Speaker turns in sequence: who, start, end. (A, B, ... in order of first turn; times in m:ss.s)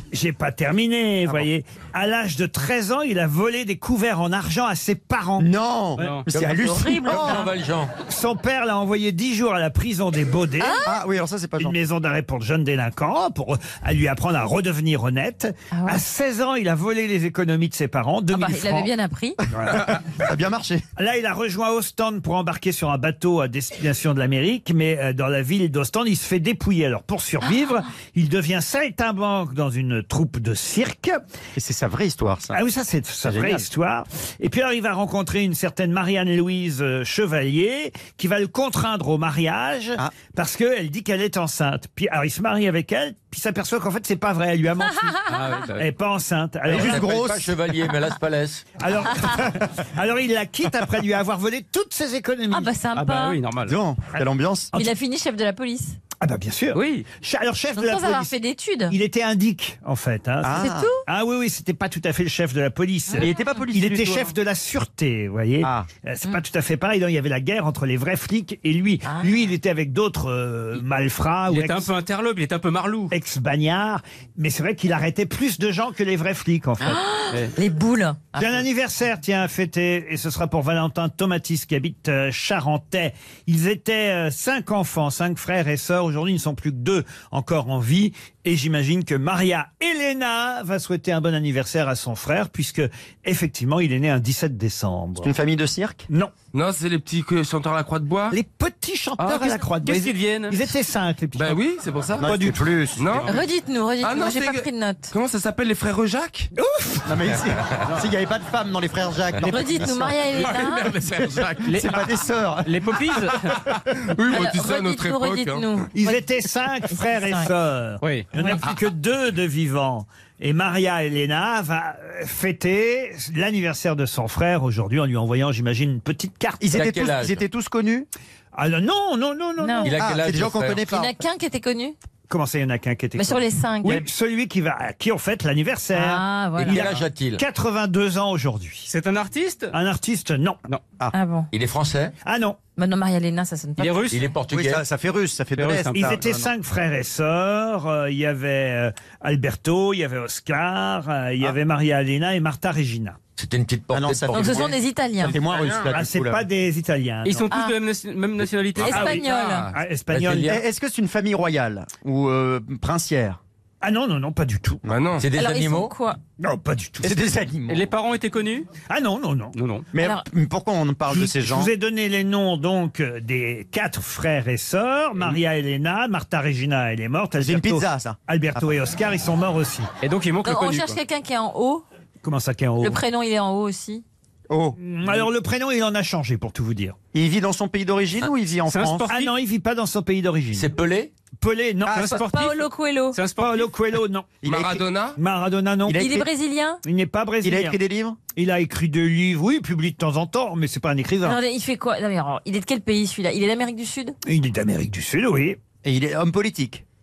0:00.1-0:05.5 A
0:05.4-0:07.5 B
0:06.0-0:06.3 C
0:06.3-0:07.9 D
0:06.6-0:07.5 E
0:08.1-0:10.8 A
0:10.6-0:11.0 E
0:10.8-0:11.8 B
0:11.6-0:18.9 A
0:15.7-0:16.0 E
0:18.3-0:19.4 E
0:19.5-0:20.0 A
0:19.7-0:20.8 B
0:21.0-0:31.2 A
0:31.5-0:32.6 B
0:32.5-0:45.2 A
0:33.2-0:33.6 B
0:45.3-0:45.8 C
0:45.7-0:47.2 A
0:46.7-0:47.5 B
0:46.7-0:48.6 D
0:48.8-0:52.7 A
0:52.5-0:53.4 E
0:52.9-0:53.8 C
0:53.6-0:54.7 B
0:54.7-0:56.0 E
0:56.2-0:58.4 A
0:56.7-0:57.1 C
0:57.7-0:58.9 E
0:58.9-1:11.9 A
1:00.4-1:00.9 B
1:00.5-1:01.0 E
1:03.1-1:03.5 E
1:03.2-1:04.2 B
1:05.6-1:05.9 B
1:09.0-1:09.4 E
1:11.5-1:13.1 C
1:13.1-1:17.0 A
1:16.8-1:18.5 E
1:18.3-1:35.3 A
1:35.2-1:36.0 B
1:36.5-1:38.4 F
1:38.3-1:41.6 A
1:39.2-1:40.6 C
1:41.4-1:42.2 F
1:42.2-1:43.2 B
1:42.2-1:42.6 A
1:43.0-1:43.4 F
1:43.3-1:45.1 E
1:44.0-1:46.5 F
1:46.6-1:47.1 A
1:47.0-1:50.2 B
1:49.4-1:50.9 E
1:50.3-1:51.8 F
1:51.6-1:52.1 C
1:51.6-1:52.9 B
1:52.6-1:53.6 C
1:53.9-1:55.6 F
1:54.3-1:56.3 E
1:55.9-2:06.8 A
1:56.9-1:57.5 E
1:58.0-1:58.3 C
2:06.6-2:08.1 B
2:06.7-2:07.4 D
2:08.5-2:09.9 A
2:09.6-2:10.0 E
2:09.8-2:10.9 D
2:10.0-2:11.2 B
2:10.8-2:12.0 E
2:12.3-2:18.9 A
2:13.2-2:14.0 E
2:15.9-2:16.8 E
2:16.6-2:17.4 D
2:18.9-2:19.7 C
2:19.7-2:20.6 A
2:21.1-2:21.5 E
2:21.5-2:22.1 D
2:22.2-2:22.6 A
2:22.8-2:24.1 E
2:23.8-2:24.2 C
2:24.1-2:24.8 D
2:24.5-2:26.2 B
2:25.6-2:26.5 C
2:25.9-2:33.2 A
2:33.4-2:34.7 D
2:33.9-2:36.4 B
2:34.3-2:35.4 E
2:35.5-2:35.9 C
2:35.9-2:37.5 A
2:37.2-2:39.4 C
2:37.5-2:37.8 E
2:38.8-2:39.7 E
2:38.8-2:40.6 A
2:39.3-2:39.7 F
2:40.1-2:40.6 D
2:40.4-2:43.4 B
2:43.8-2:44.8 A
2:44.8-2:45.3 F
2:45.2-2:45.9 D
2:45.3-2:46.2 E
2:46.4-2:47.3 A
2:47.0-2:47.9 B
2:47.7-2:48.7 C
2:48.9-2:49.6 A
2:49.5-2:49.9 C
2:49.9-2:51.7 B
2:50.0-2:50.2 E
2:51.1-2:59.9 A
2:57.4-2:58.6 B
3:00.0-3:01.0 C
3:00.4-3:01.8 E
3:02.2-3:03.0 A
3:02.8-3:04.0 E
3:04.5-3:04.8 B
3:04.8-3:07.0 A
3:07.1-3:09.1 B
3:08.7-3:09.3 C
3:09.1-3:10.7 A
3:10.5-3:11.1 D
3:11.4-3:12.3 A
3:11.8-3:12.1 B
3:11.9-3:13.7 C
3:12.0-3:13.2 E
3:13.4-3:14.4 A
3:14.4-3:14.8 B
3:14.4-3:15.2 F
3:15.2-3:16.1 A
3:15.9-3:16.3 B
3:15.9-3:16.8 E
3:16.8-3:17.8 A
3:17.4-3:18.2 B
3:18.3-3:21.4 A
3:21.2-3:24.2 E
3:24.2-3:25.6 A
3:25.8-3:26.8 B